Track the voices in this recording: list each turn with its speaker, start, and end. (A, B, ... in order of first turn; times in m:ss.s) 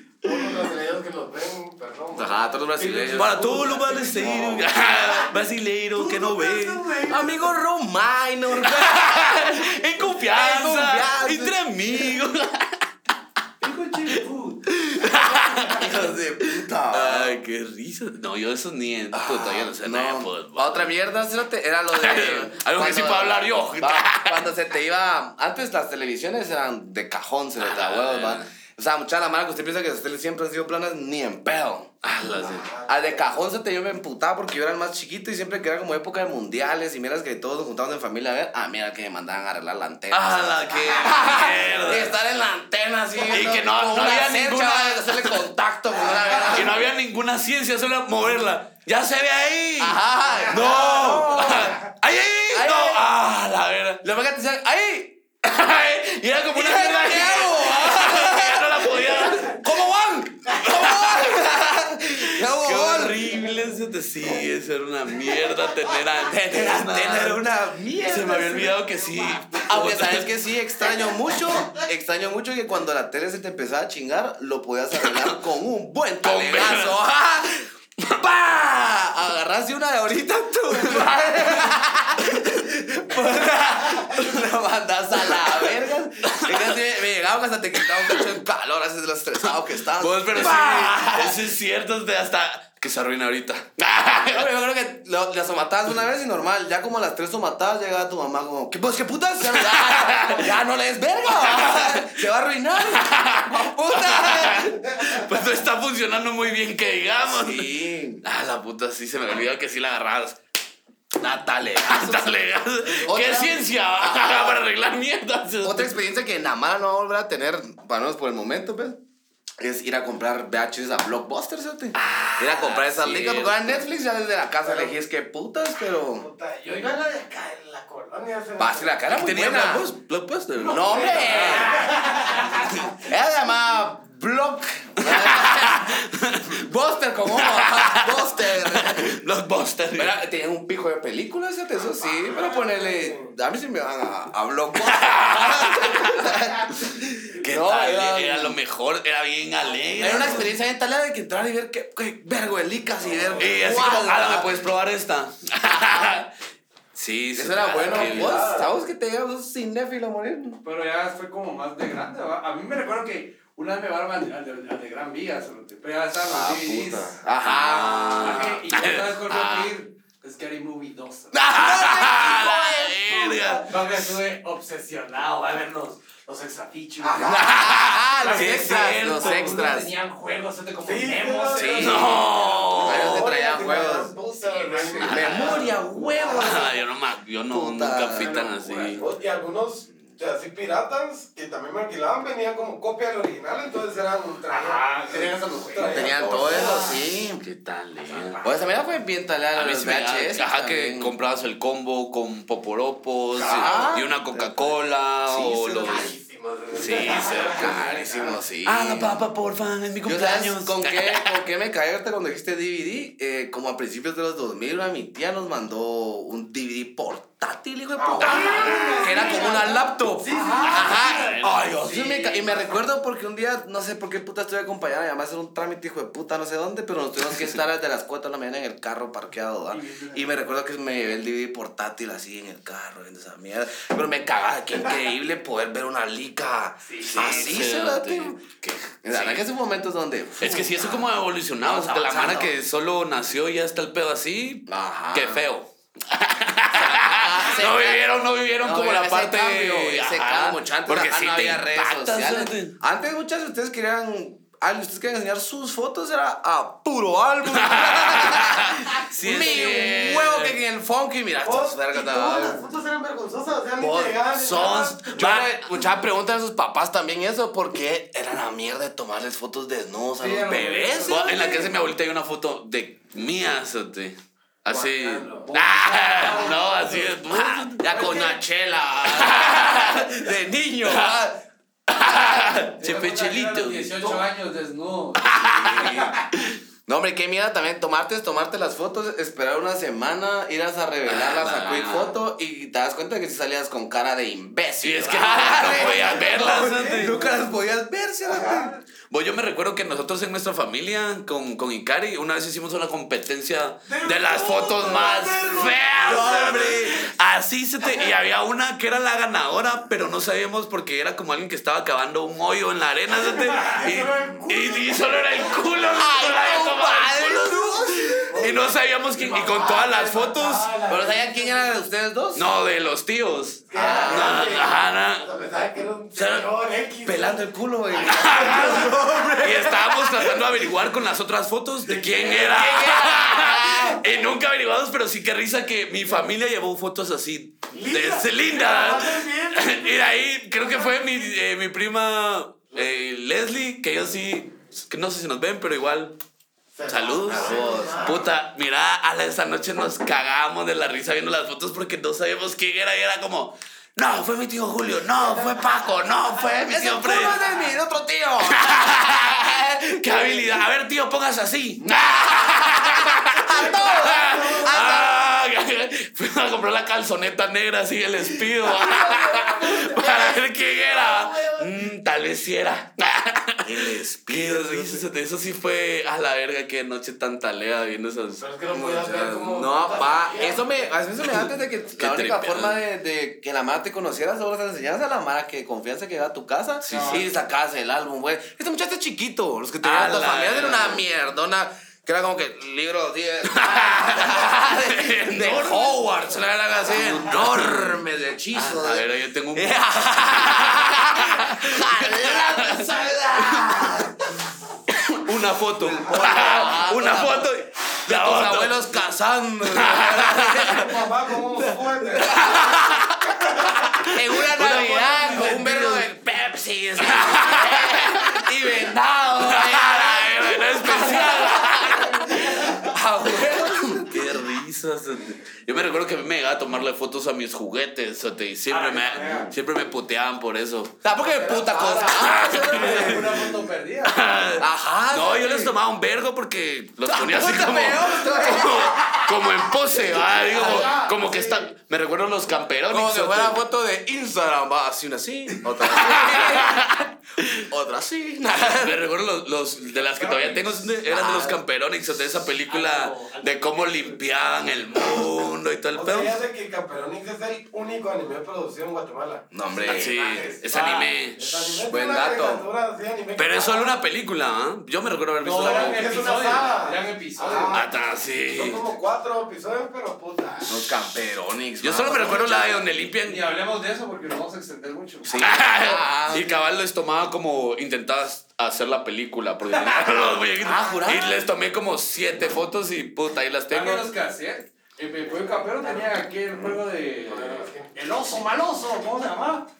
0:00.2-0:02.4 A
0:02.1-0:04.7 B
0:02.8-0:04.0 C
0:03.0-0:05.0 A
0:03.1-0:06.9 D
0:06.4-0:07.2 A
0:06.6-0:07.0 C
0:07.0-0:12.2 B
0:08.5-0:12.8 D
0:13.6-0:14.6 C
0:14.7-0:20.9 D
0:15.0-0:17.4 B
0:19.1-0:31.9 B
0:21.9-0:24.5 D
0:27.6-0:28.4 D
0:32.0-0:32.7 D
0:32.3-0:33.2 A
0:32.8-0:46.9 B
0:40.1-0:42.1 D
0:43.3-0:45.5 D
0:46.1-0:46.5 A
0:46.4-0:54.0 D
0:49.8-0:51.8 B
0:52.5-0:53.1 B
0:54.0-0:55.2 B
0:55.4-0:59.9 D
0:56.5-1:03.3 B
1:00.4-1:01.6 D
1:02.2-1:07.4 D
1:06.3-1:08.8 B
1:08.0-1:10.3 D
1:08.8-1:09.4 A
1:09.6-1:31.4 B
1:15.1-1:15.4 D
1:16.2-1:17.0 D
1:20.7-1:21.7 D
1:25.2-1:25.7 D
1:26.2-1:26.8 D
1:27.9-1:28.3 D
1:30.0-1:34.5 D
1:34.3-1:44.8 B
1:39.4-1:40.5 D
1:41.3-1:42.2 D
1:42.8-1:47.7 D
1:47.2-1:48.2 B
1:48.2-1:50.4 D
1:51.2-1:54.6 B
1:51.6-1:55.9 D
1:55.6-1:59.0 B
1:59.6-2:06.3 B
2:02.0-2:03.8 D
2:04.6-2:04.9 A
2:06.2-2:09.0 A
2:08.6-2:09.9 B
2:09.1-2:11.8 D
2:10.6-2:12.9 A
2:10.7-2:11.9 B
2:11.1-2:12.0 C
2:13.0-2:19.2 B
2:15.0-2:16.6 D
2:17.3-2:20.2 D
2:19.9-2:28.6 B
2:22.2-2:23.3 A
2:24.8-2:30.5 D
2:30.0-2:34.6 B
2:33.1-2:33.4 A
2:33.1-2:33.4 C
2:33.4-2:36.3 D
2:36.9-2:38.4 D
2:37.4-2:40.6 B
2:37.8-2:38.7 A
2:40.6-2:47.2 C
2:46.2-2:48.6 B
2:47.4-2:49.7 D
2:48.2-2:51.4 C
2:51.3-2:53.6 B
2:51.4-2:54.0 D
2:53.6-2:57.4 C
2:57.0-2:57.8 A
2:57.2-2:59.9 B
2:57.2-2:59.6 D
2:58.2-3:02.9 C
3:00.8-3:02.2 A
3:01.5-3:02.2 B
3:01.7-3:03.3 D
3:02.8-3:06.7 A
3:02.8-3:06.7 B
3:04.4-3:05.8 C
3:05.0-3:05.7 D
3:06.3-3:09.0 D
3:07.5-3:08.4 B
3:08.2-3:09.2 C
3:09.0-3:17.0 A
3:14.5-3:17.0 C
3:15.9-3:17.4 B
3:17.4-3:18.4 D
3:18.0-3:18.9 C
3:18.4-3:21.1 B
3:19.5-3:26.1 D
3:23.4-3:24.0 A
3:23.4-3:24.7 B
3:25.2-3:26.1 B
3:25.8-3:28.3 A
3:26.7-3:28.1 D
3:26.8-3:29.2 B
3:28.6-3:31.4 D
3:30.0-3:58.4 B
3:38.0-3:41.0 A
3:38.2-3:42.8 C
3:38.4-3:39.0 D
3:40.6-3:42.0 D
3:49.7-3:50.3 C
3:56.8-3:57.6 C
3:57.0-3:59.4 D
3:59.0-4:01.1 B
4:00.4-4:12.7 D
4:01.6-4:02.5 B
4:04.7-4:05.4 B
4:06.7-4:08.1 B
4:08.6-4:22.6 B
4:17.4-4:20.6 D
4:21.4-4:25.0 A
4:23.8-4:31.7 B
4:24.4-4:25.8 D
4:30.2-4:31.3 C
4:31.0-4:38.0 D
4:34.7-4:35.4 A
4:35.3-4:37.1 C
4:37.2-4:41.4 B
4:39.1-4:40.3 D
4:40.8-4:41.2 D
4:41.9-4:44.2 D
4:42.8-4:46.0 C
4:45.2-4:46.6 D
4:45.4-4:46.2 B
4:46.9-4:58.7 B
4:51.1-4:52.1 D
4:54.8-4:57.3 D
4:55.6-4:57.0 A
4:58.4-4:58.7 A
4:59.1-5:20.8 D
5:03.9-5:06.8 A
5:06.0-5:07.0 B
5:13.3-5:16.0 A
5:15.9-5:18.5 B
5:18.3-5:21.8 A
5:20.9-5:22.5 B
5:22.3-5:25.3 D
5:23.7-5:30.4 A
5:23.7-5:24.6 B
5:26.1-5:26.5 D
5:27.0-5:29.8 B
5:28.0-5:46.1 D
5:31.8-5:34.0 A
5:32.2-5:34.0 B
5:37.7-5:41.3 A
5:46.8-5:48.2 A
5:46.8-5:57.5 D
5:47.3-5:48.2 B
5:56.6-6:00.4 B
5:58.4-6:18.4 D
6:02.4-6:05.3 B
6:03.4-6:05.1 A
6:08.6-6:09.2 B
6:09.0-6:10.0 A
6:09.9-6:10.4 B
6:10.9-6:11.2 A
6:11.2-6:11.5 B
6:13.6-6:15.0 B
6:18.4-6:20.9 A
6:18.7-6:44.5 B
6:21.2-6:22.8 D
6:26.8-6:27.2 D
6:26.9-6:27.2 C
6:29.8-6:31.0 D
6:33.4-6:38.0 D
6:38.5-6:44.1 D
6:44.9-6:49.1 D
6:45.7-6:47.5 B
6:48.0-6:51.0 B
6:49.6-6:50.9 D
6:50.6-6:52.7 A
6:52.0-6:53.0 B
6:52.1-6:56.1 D
6:53.3-6:53.9 A
6:54.1-7:04.4 B
6:57.0-6:58.5 D
6:59.3-7:03.4 D
7:04.0-7:11.0 D
7:08.7-7:09.5 C
7:11.0-7:13.5 B
7:11.4-7:14.4 C
7:11.5-7:12.1 A
7:12.0-7:13.5 D
7:14.1-7:23.6 D
7:14.6-7:15.7 B
7:17.0-7:21.0 B
7:20.5-7:21.6 C
7:22.9-7:27.0 B
7:25.8-7:27.7 D
7:27.6-7:29.0 B
7:28.5-7:36.4 D
7:30.0-7:30.6 C
7:31.0-7:31.6 B
7:32.7-7:34.3 C
7:35.9-7:44.0 A
7:39.5-7:40.2 B
7:39.8-7:41.8 D
7:40.4-7:41.1 C
7:41.9-7:42.6 B
7:43.4-7:46.5 D
7:45.4-7:47.8 C
7:45.5-7:50.7 A
7:47.7-7:48.8 D
7:50.7-7:52.8 B
7:51.8-7:53.4 D
7:53.2-7:55.5 C
7:55.2-7:56.5 B
7:55.3-8:04.0 D
7:59.7-8:00.8 C
8:00.6-8:01.4 B
8:03.7-8:09.7 C
8:05.4-8:06.1 A
8:07.2-8:07.9 A